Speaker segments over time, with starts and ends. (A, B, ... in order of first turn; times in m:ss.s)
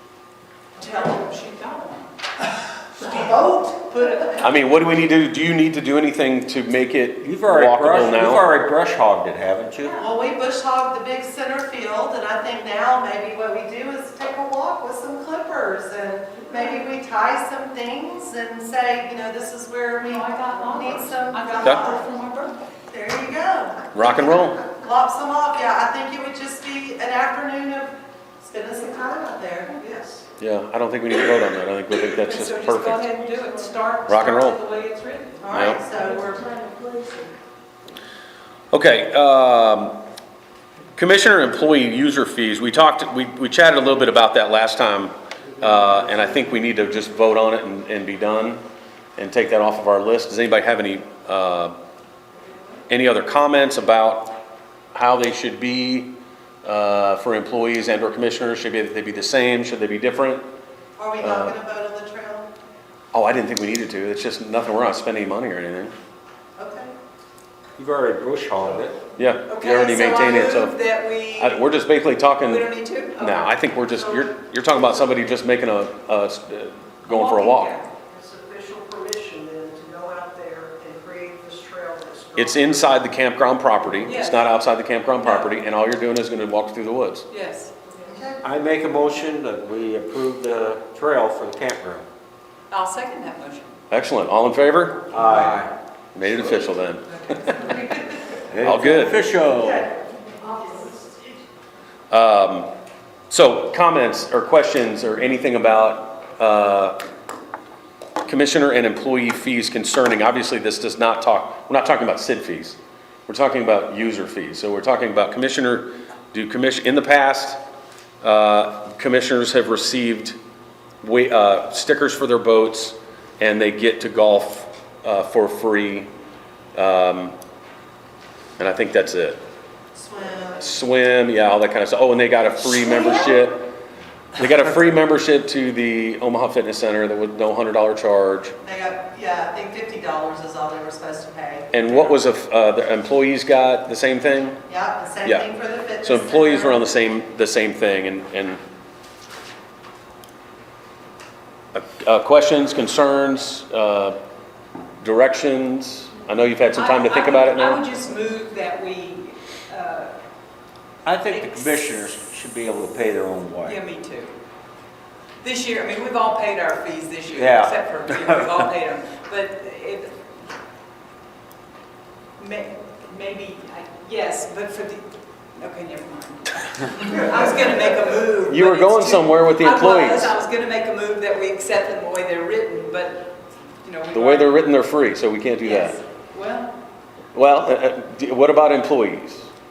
0:00.8-0:01.3 A
0:00.8-0:02.1 B
0:03.0-0:03.4 B
0:03.0-0:04.3 A
0:04.0-0:04.3 B
0:04.4-0:08.5 C
0:07.2-0:10.0 D
0:09.8-0:10.1 B
0:10.0-0:22.1 A
0:20.0-0:22.6 B
0:22.9-0:30.0 A
0:23.9-0:24.6 C
0:30.4-0:33.1 C
0:32.1-0:35.4 B
0:34.1-0:34.6 C
0:35.4-0:36.6 A
0:35.5-0:35.8 C
0:36.5-0:37.3 E
0:38.7-0:40.0 C
0:41.0-0:48.6 C
0:49.2-0:51.7 C
0:52.9-0:54.3 C
0:54.9-0:56.1 C
0:56.6-1:00.4 C
1:01.0-1:02.5 A
1:01.2-1:01.6 C
1:03.1-1:05.9 C
1:06.6-1:06.9 A
1:07.8-1:09.0 D
1:09.2-1:10.8 C
1:09.5-1:11.6 B
1:11.4-1:17.7 C
1:12.4-1:13.3 B
1:17.1-1:17.9 B
1:18.1-1:22.8 E
1:22.4-1:27.2 C
1:24.0-1:24.5 B
1:25.2-1:25.5 B
1:27.3-1:27.7 B
1:28.0-1:28.4 A
1:28.4-1:32.0 D
1:32.7-1:33.8 B
1:33.9-1:35.5 C
1:35.1-1:35.7 D
1:36.1-1:37.8 C
1:37.5-1:38.0 B
1:38.5-1:39.9 D
1:38.6-1:39.2 C
1:40.2-1:41.0 E
1:40.6-1:40.9 A
1:42.1-1:42.7 C
1:43.3-1:47.0 C
1:48.2-1:57.6 C
1:58.2-2:00.4 C
2:01.0-2:06.1 C
2:06.7-2:07.4 C
2:08.6-2:09.4 C
2:09.9-2:10.7 A
2:10.6-2:13.6 C
2:14.4-2:18.5 C
2:18.6-2:22.1 A
2:21.7-2:24.6 C
2:24.7-2:26.8 A
2:25.2-2:25.5 C
2:26.0-2:28.6 C
2:31.7-2:34.2 C
2:35.0-2:37.8 C
2:36.7-2:40.1 B
2:41.0-2:43.8 D
2:41.2-2:42.0 B
2:43.6-2:44.3 B
2:45.4-2:50.1 B
2:47.3-2:48.6 D
2:52.4-3:03.3 B
2:58.4-3:00.3 C
3:03.8-3:04.7 B
3:04.1-3:06.0 C
3:05.6-3:06.7 B
3:07.3-3:09.5 C